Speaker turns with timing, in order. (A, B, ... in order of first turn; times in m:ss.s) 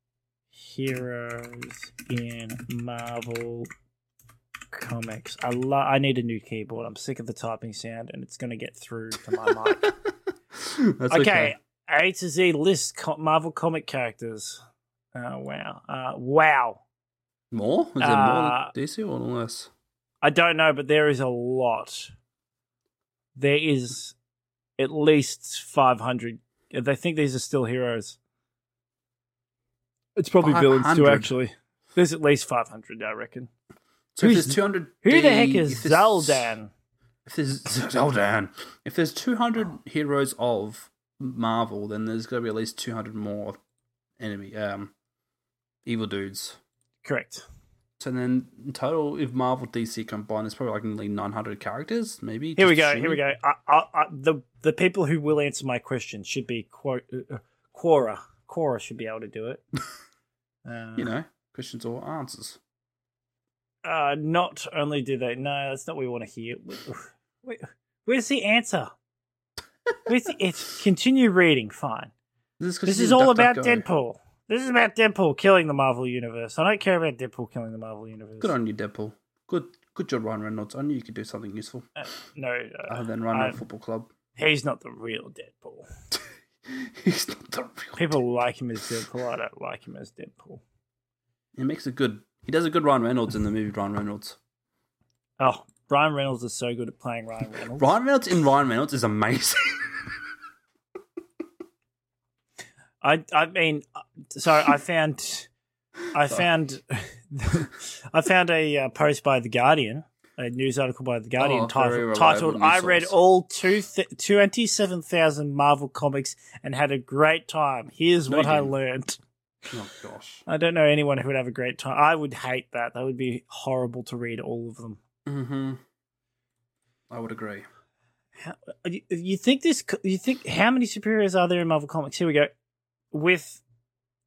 0:00.6-0:03.7 A
0:04.7-0:09.9 A
0:10.6-0:11.6 B
0:11.1-0:14.6 A
0:15.2-0:16.8 A
0:17.5-0:19.7 B
0:18.0-0:18.7 A
0:20.2-0:22.1 A
0:23.4-0:24.1 A
0:24.8-0:28.2 A
0:30.2-0:33.5 A
0:30.4-0:31.3 B
0:34.2-0:36.5 B
0:34.2-0:36.7 A
0:37.3-0:43.6 B
0:44.2-0:44.9 B
0:45.9-0:46.6 B
0:47.0-0:47.4 A
0:48.0-0:53.2 B
0:52.6-0:59.6 A
1:00.7-1:01.1 A
1:01.0-1:02.6 B
1:03.8-1:08.9 A
1:10.1-1:12.1 A
1:12.6-1:13.8 B
1:12.9-1:18.5 A
1:18.4-1:21.9 B
1:22.0-1:23.6 A
1:22.9-1:24.1 B
1:24.4-1:25.9 A
1:26.7-1:28.2 B
1:28.0-1:30.6 A
1:31.6-1:34.4 B
1:35.4-1:37.9 A
1:37.8-1:39.8 B
1:43.0-1:45.5 A
1:46.1-1:59.2 A
1:51.4-1:53.1 B
1:58.3-1:58.7 B
1:59.7-2:00.4 B
2:00.5-2:05.0 A
2:05.3-2:05.8 B
2:07.1-2:07.7 B
2:08.4-2:12.5 A
2:13.1-2:13.6 A